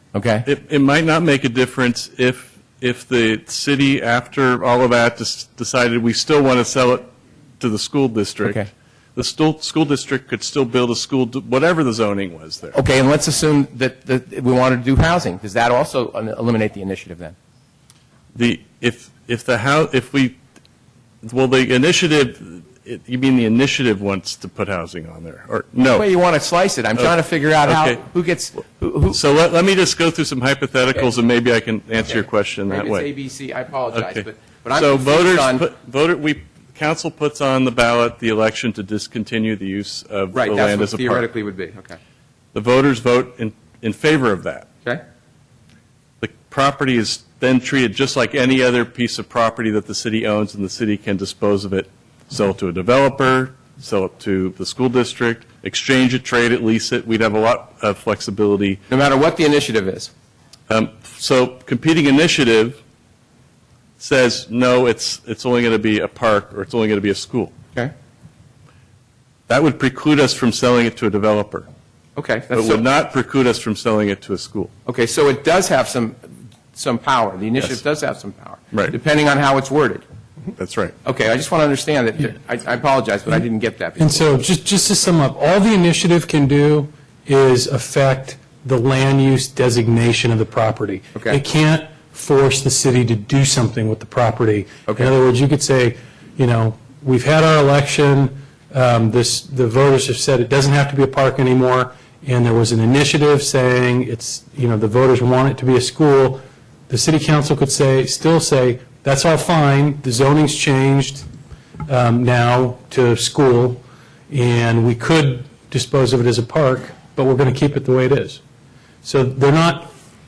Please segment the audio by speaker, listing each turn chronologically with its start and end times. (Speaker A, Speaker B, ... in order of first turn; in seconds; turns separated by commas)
Speaker A: 0.1-0.5, Speaker B: 0.5-12.8, Speaker A: 8.4-8.7, Speaker A: 12.7-17.4, Speaker B: 18.3-20.4, Speaker B: 21.2-26.1, Speaker A: 25.8-29.2, Speaker B: 27.6-28.0, Speaker B: 29.1-33.1, Speaker A: 32.7-35.6, Speaker B: 33.9-41.2, Speaker A: 40.3-42.0, Speaker B: 42.5-44.7, Speaker B: 46.2-58.8, Speaker A: 58.9-60.1, Speaker B: 60.7-62.8, Speaker B: 64.0-67.5, Speaker B: 69.5-71.7, Speaker A: 72.2-72.8, Speaker B: 72.5-74.7, Speaker A: 74.9-76.2, Speaker A: 76.7-80.0, Speaker B: 80.6-81.0, Speaker A: 81.0-84.2, Speaker C: 84.0-111.3, Speaker C: 111.9-118.4, Speaker C: 119.0-119.9